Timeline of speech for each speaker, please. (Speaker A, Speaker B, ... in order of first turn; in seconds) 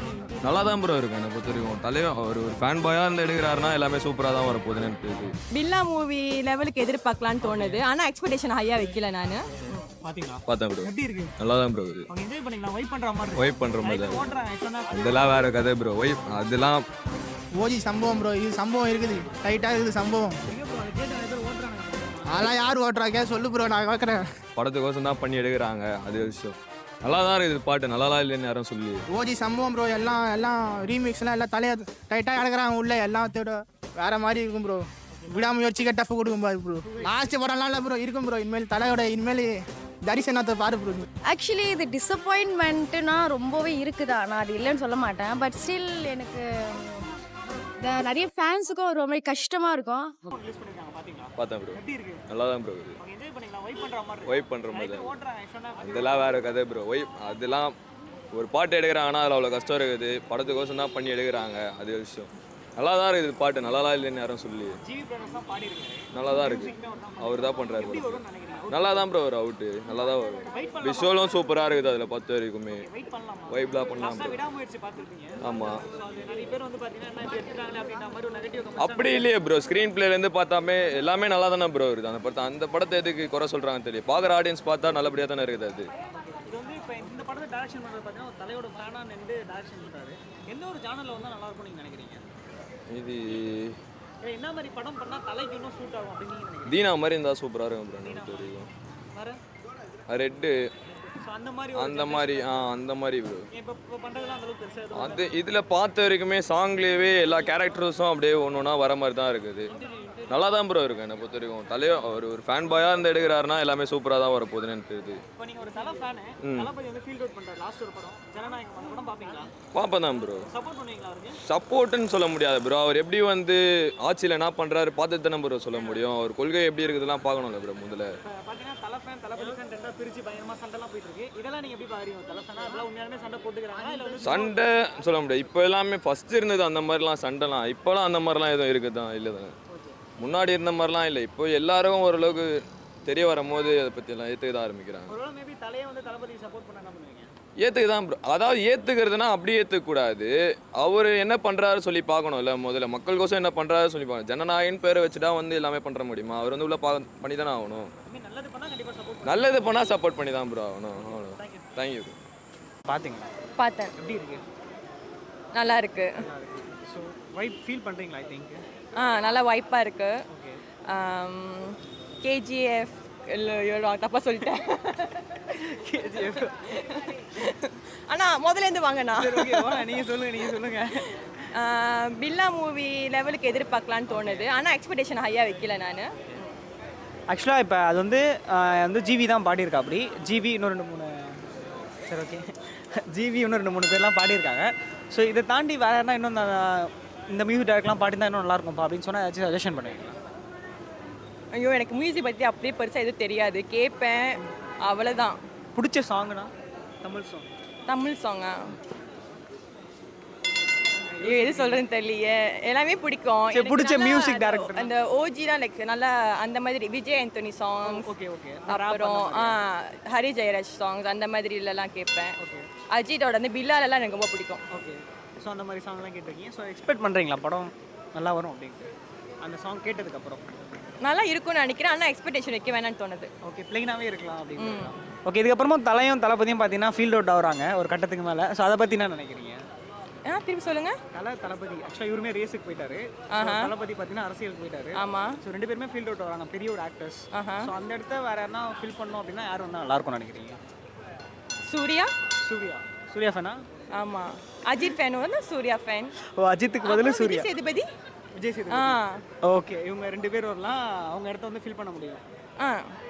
Speaker A: 0.4-5.3, 10.4-12.1, 13.3-14.2, 14.9-16.9, 24.6-29.1, 51.4-53.0, 54.2-55.1, 55.8-57.7, 58.3-64.8, 66.1-72.9, 73.5-74.4, 75.4-75.8, 78.8-85.9, 92.9-93.8, 96.7-98.7, 100.1-100.5, 101.7-103.5, 104.9-109.7, 110.3-115.2, 116.4-116.7, 119.7-120.5, 121.4-128.1, 134.2-139.5, 140.2-142.5, 143.0-145.1, 147.6-157.9, 159.2-162.2
Speaker B: 5.5-9.8, 163.6-163.9, 165.5-166.2, 168.9-170.1, 170.9-175.3, 176.6-179.9, 181.0-186.5, 201.5-205.4, 207.9-208.8, 211.2-218.1, 218.7-222.3, 222.9-224.6, 231.0-233.3, 234.6-234.9, 240.2-241.0, 243.3-243.7, 244.9-245.4, 247.3-247.7, 251.6-252.1, 253.9-256.1, 256.8-257.9, 258.7-259.2, 262.6-262.9
Speaker C: 7.4-7.8, 9.9-11.3, 12.1-15.4, 20.5-22.4, 36.9-37.1, 50.3-52.2, 53.0-56.4, 64.8-69.1, 70.5-71.5, 72.7-79.3, 86.5-92.2, 94.2-96.8, 98.0-98.5, 99.1-99.4, 101.2-102.5, 103.5-105.3, 115.4-119.5, 120.5-121.4, 128.2-134.6, 139.7-140.0, 145.1-147.3, 158.1-159.9, 160.9-161.7, 162.9-163.3, 164.0-164.4, 166.2-168.7, 170.3-170.6, 175.4-176.6, 179.1-181.0, 184.1-184.5, 187.3-191.4, 192.1-200.2, 205.7-206.5, 207.0-207.5, 211.1-211.8, 213.5-214.9, 217.8-219.6, 222.4-222.7, 224.7-230.4, 233.4-239.6, 241.1-250.6, 252.4-253.6, 256.2-257.5, 258.3-262.2
Speaker D: 17.6-20.4, 22.3-24.2, 29.1-41.0
Speaker E: 41.3-47.1, 47.8-50.1